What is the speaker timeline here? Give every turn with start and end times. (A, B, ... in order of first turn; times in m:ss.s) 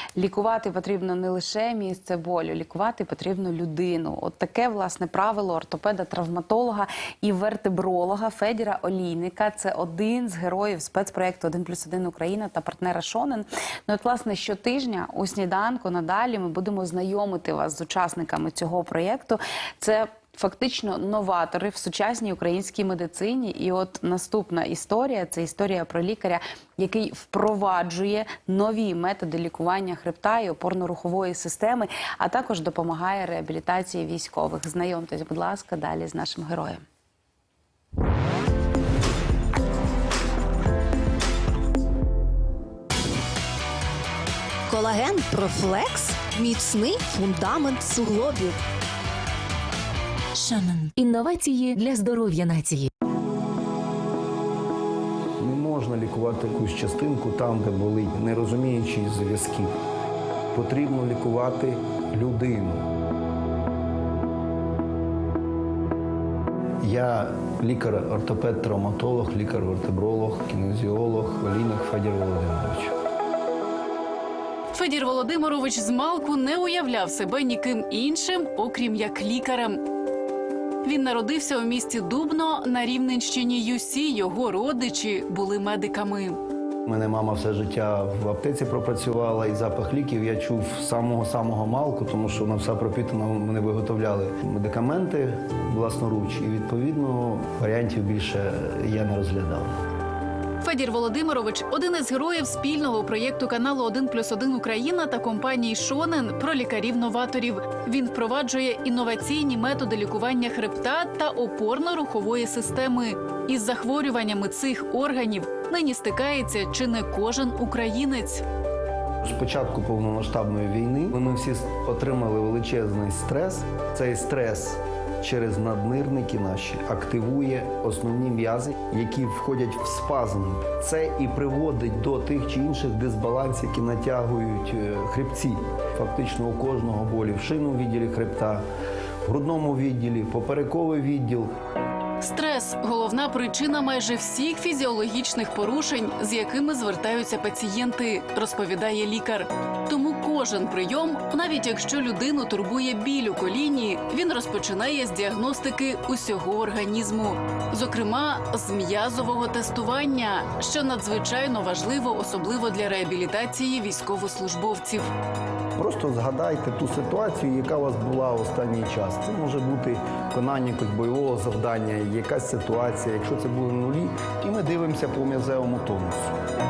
0:00.2-0:36.8 A
0:44.7-0:48.6 B
0:50.3-0:52.9 C
0:55.4-0:59.7 D
1:00.5-1:02.9 D
1:06.8-1:13.0 D
1:14.7-1:19.8 E
1:20.8-1:26.4 E
1:26.8-1:39.7 D
1:40.6-1:58.4 E
1:59.2-2:18.6 D
2:19.2-2:21.5 D
2:22.2-2:45.1 E
2:45.8-2:56.3 D